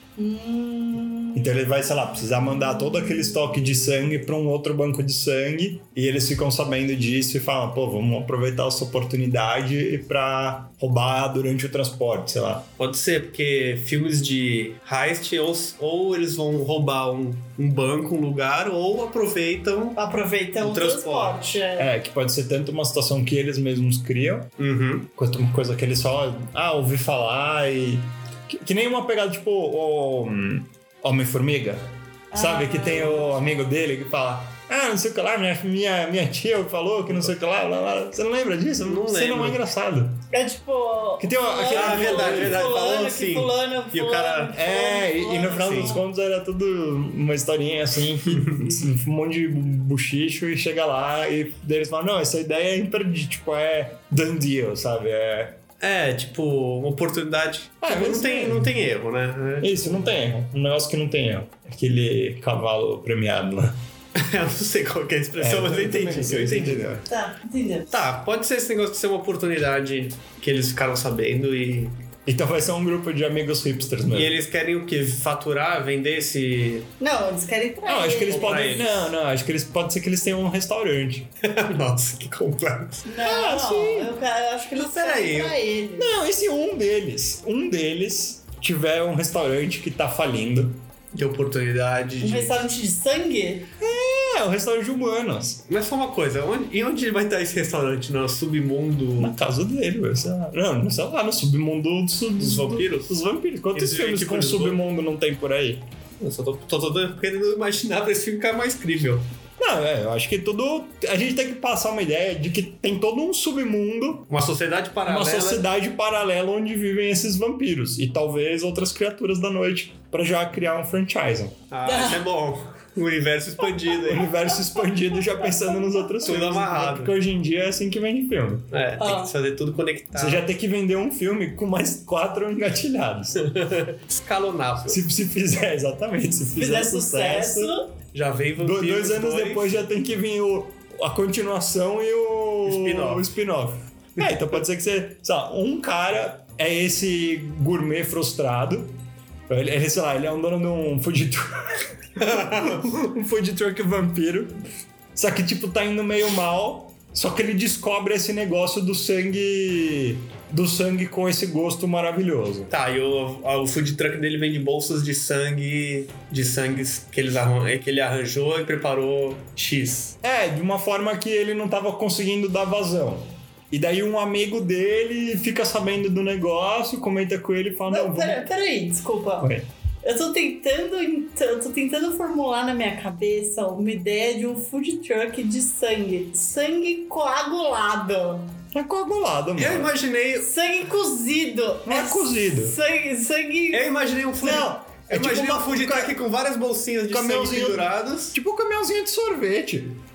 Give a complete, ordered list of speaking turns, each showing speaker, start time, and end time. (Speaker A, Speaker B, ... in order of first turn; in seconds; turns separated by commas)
Speaker A: 0.2-1.6, Speaker B: 1.3-12.7, Speaker C: 12.8-20.0, Speaker A: 19.9-21.9, Speaker C: 20.6-21.6, Speaker B: 21.8-24.5, Speaker C: 24.6-25.1, Speaker B: 25.1-40.2, Speaker A: 32.3-33.3, Speaker C: 38.8-39.6, Speaker A: 40.3-46.0, Speaker B: 41.2-42.7, Speaker C: 41.7-44.5, Speaker B: 44.5-55.6, Speaker C: 45.6-46.0, Speaker C: 55.8-59.9, Speaker B: 57.8-58.7, Speaker B: 59.6-63.8, Speaker C: 64.1-67.0, Speaker B: 65.4-67.0, Speaker A: 67.1-68.1, Speaker C: 67.9-72.0, Speaker B: 72.2-74.3, Speaker C: 74.1-76.9, Speaker A: 77.0-78.7, Speaker B: 77.8-81.3, Speaker C: 78.3-79.1, Speaker C: 81.4-83.1, Speaker A: 83.0-86.1, Speaker B: 83.2-84.1, Speaker C: 84.8-85.6, Speaker B: 86.0-90.8, Speaker C: 91.1-92.6, Speaker A: 92.2-93.7, Speaker B: 93.8-95.6, Speaker C: 95.7-99.4, Speaker B: 99.2-105.8, Speaker C: 102.4-103.2, Speaker C: 103.7-104.8, Speaker C: 106.2-109.3, Speaker B: 109.6-114.3, Speaker C: 114.3-115.6, Speaker B: 115.0-121.6, Speaker C: 121.7-124.3, Speaker A: 121.8-122.2, Speaker B: 124.0-128.7, Speaker C: 126.2-127.1, Speaker C: 128.7-130.4, Speaker A: 129.0-129.3, Speaker B: 130.1-133.5, Speaker C: 133.4-135.0, Speaker B: 134.9-137.7, Speaker A: 136.5-137.9, Speaker C: 138.1-139.8, Speaker B: 138.6-149.0, Speaker C: 142.6-143.3, Speaker B: 149.5-154.6, Speaker C: 152.2-152.8, Speaker B: 155.1-162.7, Speaker C: 162.7-170.2, Speaker B: 170.2-178.4, Speaker A: 177.9-188.5, Speaker B: 179.4-179.7, Speaker B: 188.7-189.9, Speaker C: 189.6-190.5, Speaker A: 190.4-193.8, Speaker B: 191.8-192.8, Speaker C: 193.7-198.4, Speaker B: 194.4-196.2, Speaker B: 197.1-200.0